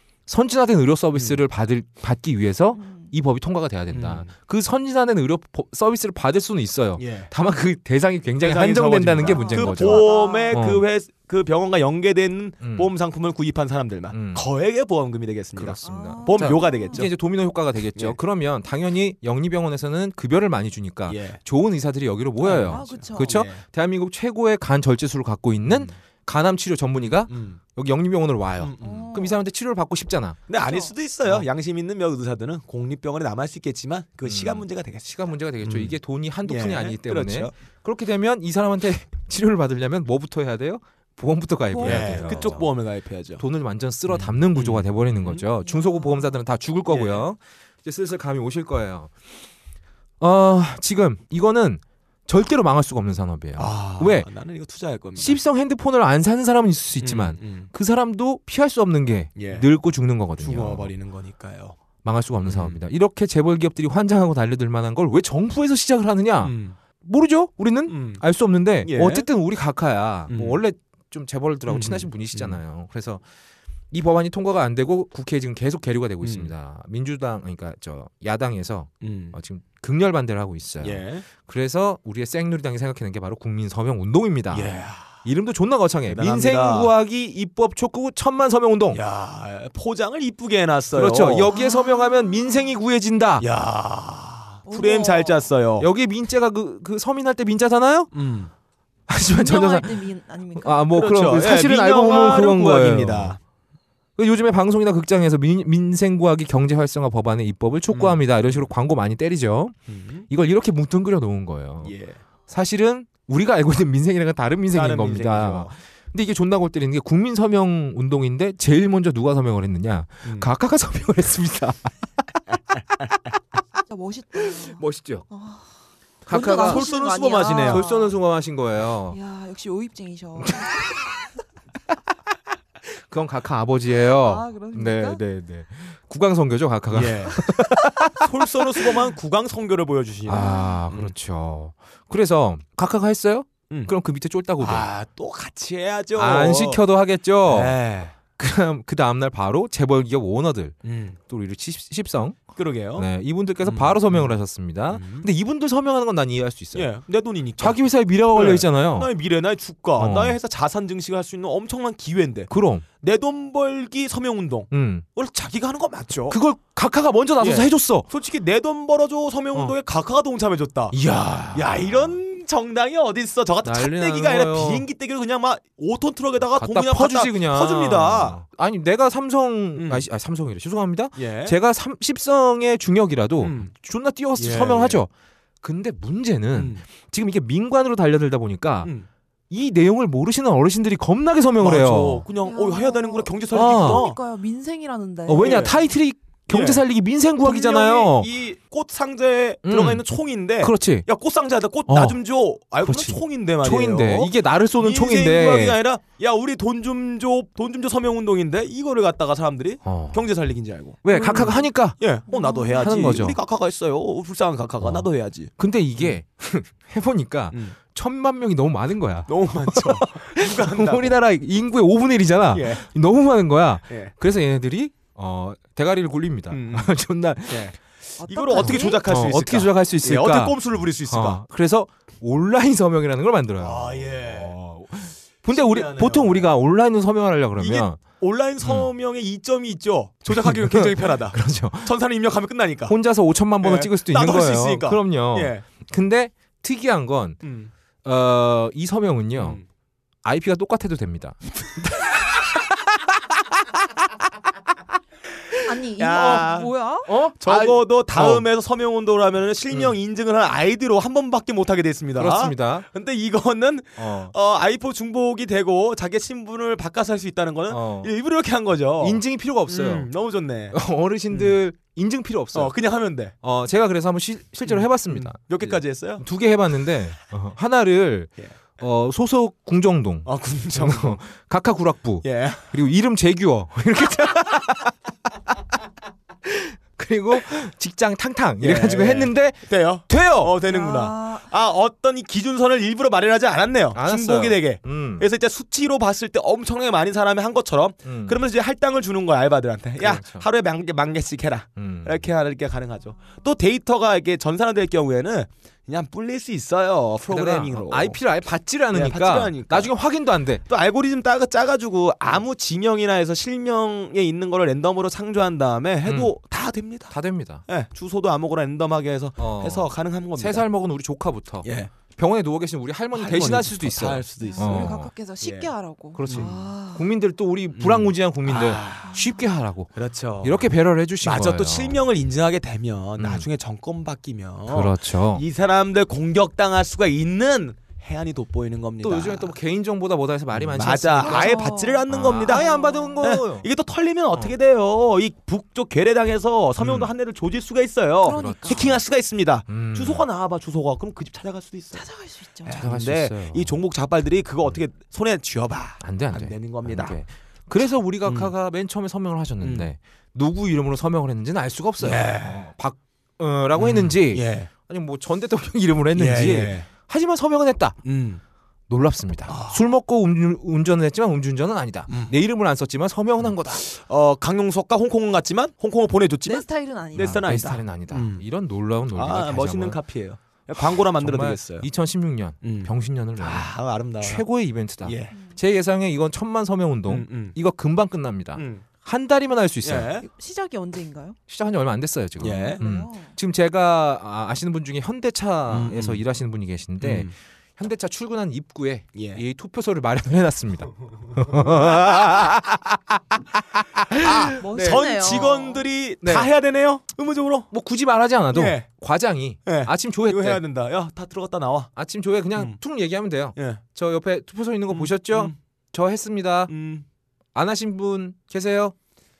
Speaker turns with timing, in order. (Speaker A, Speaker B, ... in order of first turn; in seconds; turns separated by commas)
Speaker A: 0.3-10.8, Speaker B: 1.1-1.4, Speaker C: 2.7-3.1, Speaker B: 3.9-4.3, Speaker B: 7.0-7.3, Speaker B: 8.4-17.1, Speaker C: 9.2-10.6, Speaker A: 12.6-12.9, Speaker A: 14.1-14.4, Speaker A: 15.6-30.4, Speaker C: 15.8-17.1, Speaker B: 21.1-21.4, Speaker B: 22.4-23.6, Speaker C: 22.6-23.4, Speaker B: 25.6-25.9, Speaker B: 27.3-27.6, Speaker B: 28.6-29.1, Speaker C: 28.8-29.4, Speaker B: 30.5-35.0, Speaker C: 30.6-30.9, Speaker A: 34.2-42.7, Speaker B: 35.6-37.5, Speaker C: 41.7-42.6, Speaker B: 41.8-43.4, Speaker A: 43.4-49.1, Speaker B: 44.1-45.4, Speaker C: 45.6-46.4, Speaker B: 46.9-47.2, Speaker A: 50.2-54.3, Speaker B: 53.6-55.4, Speaker A: 55.2-60.9, Speaker B: 57.0-57.7, Speaker B: 59.4-59.7, Speaker B: 60.4-61.8, Speaker A: 62.0-73.2, Speaker B: 62.4-62.8, Speaker B: 66.4-66.8, Speaker B: 67.9-68.2, Speaker B: 68.8-69.2, Speaker B: 70.3-70.6, Speaker B: 71.7-72.6, Speaker A: 73.9-89.0, Speaker B: 76.2-76.5, Speaker B: 79.0-79.3, Speaker B: 80.8-81.3, Speaker B: 84.5-85.2, Speaker B: 86.1-86.9, Speaker B: 88.9-91.5, Speaker A: 90.9-93.5, Speaker C: 91.5-92.7, Speaker B: 93.4-95.9, Speaker C: 94.7-95.4, Speaker A: 95.8-98.1, Speaker B: 98.1-98.5, Speaker A: 99.1-103.4, Speaker C: 99.3-100.9, Speaker B: 100.9-103.4, Speaker A: 104.2-109.8, Speaker B: 107.9-108.7, Speaker B: 109.9-110.3, Speaker A: 110.3-111.9, Speaker B: 111.8-112.2, Speaker A: 112.5-121.9, Speaker B: 114.7-115.7, Speaker C: 123.9-125.7, Speaker A: 124.5-125.2, Speaker A: 126.2-126.9, Speaker C: 126.3-128.2, Speaker B: 126.3-127.8, Speaker A: 127.5-129.2, Speaker C: 129.1-130.8, Speaker A: 130.6-130.9, Speaker A: 133.0-139.0, Speaker C: 134.0-135.2, Speaker B: 136.9-141.1, Speaker A: 140.2-144.9, Speaker C: 140.3-140.8, Speaker B: 144.6-146.8, Speaker A: 146.1-147.8, Speaker B: 147.5-148.2, Speaker A: 148.4-152.4, Speaker B: 150.8-151.2, Speaker B: 152.6-153.1, Speaker A: 152.9-156.9, Speaker B: 153.6-154.3, Speaker B: 154.9-155.2, Speaker B: 156.7-166.4, Speaker A: 157.6-159.1, Speaker A: 159.9-160.4, Speaker A: 162.5-162.8, Speaker A: 164.7-165.1, Speaker A: 166.3-168.1, Speaker B: 167.4-171.0, Speaker A: 170.9-172.2, Speaker B: 171.5-178.4, Speaker A: 173.6-174.8, Speaker A: 176.5-185.1, Speaker B: 179.8-180.0, Speaker B: 181.2-181.6, Speaker B: 183.4-183.7, Speaker B: 184.4-185.0, Speaker A: 185.6-188.9, Speaker B: 186.5-186.8, Speaker A: 189.5-192.2, Speaker B: 191.6-194.2, Speaker C: 192.4-195.8, Speaker A: 193.5-194.0, Speaker A: 195.2-198.3, Speaker B: 195.4-195.8, Speaker B: 196.5-196.8, Speaker B: 197.4-216.2, Speaker A: 199.6-200.1, Speaker A: 200.6-201.1, Speaker A: 201.9-202.2, Speaker A: 202.8-205.8, Speaker A: 209.8-210.3, Speaker A: 211.0-212.0, Speaker C: 211.1-211.6, Speaker C: 212.3-213.0, Speaker A: 212.7-213.4, Speaker A: 214.8-215.1, Speaker A: 215.6-227.7, Speaker B: 219.3-221.2, Speaker B: 222.5-222.8, Speaker B: 226.5-226.9, Speaker B: 227.5-227.8, Speaker C: 228.2-229.0, Speaker B: 228.3-231.4, Speaker A: 228.5-238.0, Speaker B: 233.6-234.6, Speaker B: 235.5-236.5, Speaker B: 237.6-242.9, Speaker A: 238.6-238.9, Speaker A: 240.3-241.9, Speaker A: 242.8-247.4, Speaker B: 243.6-245.6, Speaker B: 247.4-247.7, Speaker A: 248.0-249.6, Speaker B: 249.3-249.6, Speaker A: 250.2-252.0, Speaker C: 255.6-257.1, Speaker B: 256.0-256.7, Speaker A: 256.1-256.5, Speaker A: 257.0-258.5, Speaker B: 257.4-270.8, Speaker A: 259.7-259.9, Speaker A: 262.1-262.9, Speaker A: 264.0-264.3, Speaker A: 267.7-268.1, Speaker A: 269.0-270.1, Speaker A: 270.7-272.7, Speaker B: 271.3-271.6, Speaker B: 272.5-273.3, Speaker A: 273.4-284.9, Speaker B: 274.6-276.2, Speaker B: 280.2-281.2, Speaker B: 282.2-282.6, Speaker A: 286.4-290.5, Speaker B: 288.6-308.2, Speaker C: 290.7-291.5, Speaker A: 293.9-295.3, Speaker A: 298.0-298.4, Speaker A: 300.0-300.5, Speaker A: 301.8-302.3, Speaker A: 307.3-310.6, Speaker B: 308.9-309.9, Speaker B: 310.7-317.1, Speaker A: 316.0-316.3, Speaker A: 317.1-317.6, Speaker B: 317.7-320.6, Speaker A: 319.4-325.1, Speaker B: 321.6-321.9, Speaker B: 323.1-325.7, Speaker C: 324.4-327.1, Speaker A: 326.1-332.0, Speaker B: 326.2-326.5, Speaker B: 327.8-329.2, Speaker C: 329.0-329.3, Speaker B: 329.9-330.7, Speaker B: 331.2-339.5, Speaker A: 333.2-333.5, Speaker A: 334.7-335.4, Speaker A: 339.0-343.7, Speaker B: 340.5-342.7, Speaker C: 341.2-343.2, Speaker B: 343.2-352.0, Speaker A: 346.8-347.1, Speaker C: 348.2-348.8, Speaker A: 348.3-349.0, Speaker A: 349.7-350.2, Speaker C: 351.9-352.8, Speaker B: 352.6-357.2, Speaker A: 352.7-353.8, Speaker A: 356.0-368.0, Speaker B: 358.2-358.5, Speaker B: 359.6-359.9, Speaker B: 362.0-362.6, Speaker B: 363.8-364.7, Speaker B: 366.1-366.9, Speaker B: 368.0-368.4, Speaker A: 368.9-373.8, Speaker B: 369.5-369.8, Speaker B: 372.1-372.3, Speaker B: 373.7-378.4, Speaker C: 376.4-377.5, Speaker A: 377.1-380.0, Speaker B: 379.1-381.9, Speaker A: 380.8-390.1, Speaker B: 382.6-384.4, Speaker B: 385.0-385.3, Speaker B: 387.1-387.6, Speaker B: 388.6-388.8, Speaker B: 389.8-390.3, Speaker C: 390.2-391.4, Speaker A: 391.5-403.0, Speaker B: 392.4-392.8, Speaker C: 392.8-393.4, Speaker B: 395.7-396.2, Speaker B: 397.0-397.3, Speaker B: 399.1-399.4, Speaker A: 403.7-405.5, Speaker B: 404.1-407.7, Speaker C: 404.6-405.8, Speaker A: 406.2-406.5, Speaker A: 407.7-410.6, Speaker B: 408.5-408.9, Speaker B: 409.6-411.9, Speaker A: 411.9-416.7, Speaker B: 413.6-413.8, Speaker B: 414.9-415.6, Speaker B: 416.7-417.0, Speaker A: 417.5-418.9